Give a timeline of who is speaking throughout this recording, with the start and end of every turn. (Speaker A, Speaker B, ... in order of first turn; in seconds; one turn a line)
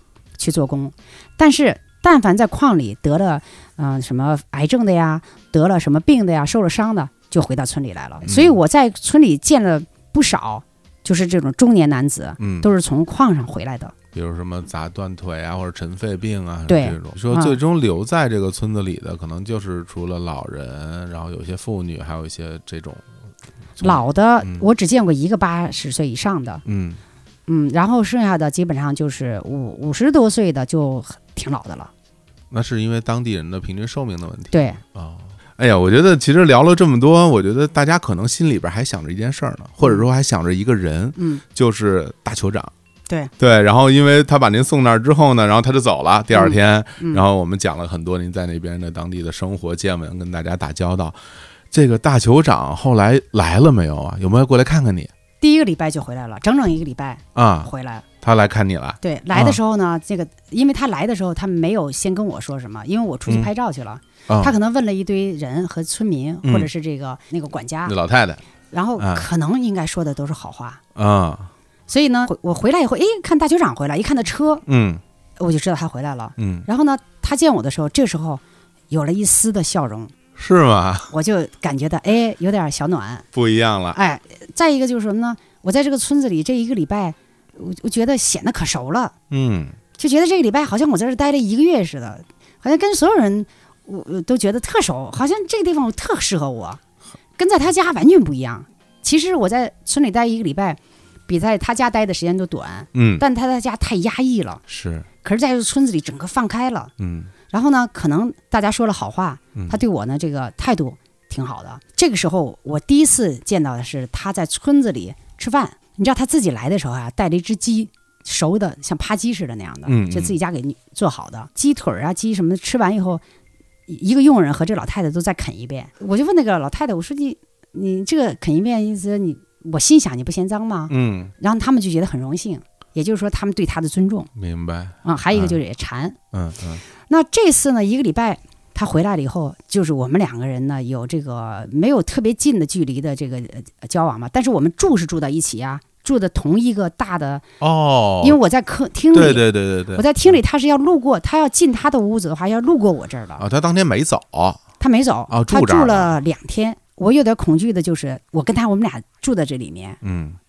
Speaker A: 0.4-13.9
Speaker B: 8.2-8.6
Speaker B: 12.4-12.7
Speaker B: 14.1-23.1
Speaker A: 16.7-17.6
Speaker B: 23.8-24.6
Speaker A: 23.8-26.6
Speaker B: 26.6-27.0
Speaker A: 27.5-31.9
Speaker B: 32.5-42.7
Speaker A: 34.5-34.8
Speaker A: 41.2-41.4
Speaker B: 43.4-51.2
Speaker A: 46.3-47.2
Speaker B: 51.7-55.1
Speaker A: 55.4-58.0
Speaker B: 57.3-57.7
Speaker B: 58.2-59.6
Speaker A: 59.0-68.0
Speaker B: 63.2-63.5
Speaker B: 64.3-64.5
Speaker B: 66.4-66.7
Speaker B: 67.8-68.4
Speaker A: 68.7-70.8
Speaker B: 69.0-69.2
Speaker B: 70.9-71.5
Speaker A: 71.9-74.6
Speaker B: 74.7-75.0
Speaker A: 75.4-80.1
Speaker B: 76.4-76.7
Speaker B: 80.3-81.1
Speaker A: 81.1-83.2
Speaker B: 83.3-84.0
Speaker A: 83.9-89.1
Speaker B: 89.3-89.8
Speaker A: 90.0-96.8
Speaker A: 97.4-104.6
Speaker B: 102.9-103.2
Speaker B: 104.7-105.1
Speaker A: 105.2-106.9
Speaker B: 107.0-107.3
Speaker A: 107.5-123.2
Speaker B: 109.5-109.8
Speaker B: 119.8-120.3
Speaker A: 123.9-134.3
Speaker B: 130.9-131.3
Speaker B: 134.3-135.6
Speaker A: 135.0-136.2
Speaker B: 136.3-136.8
Speaker A: 137.0-147.4
Speaker B: 147.6-148.4
Speaker A: 148.2-153.4
Speaker B: 149.1-150.4
Speaker B: 153.4-154.6
Speaker A: 154.8-160.0
Speaker B: 155.3-156.1
Speaker B: 160.0-160.4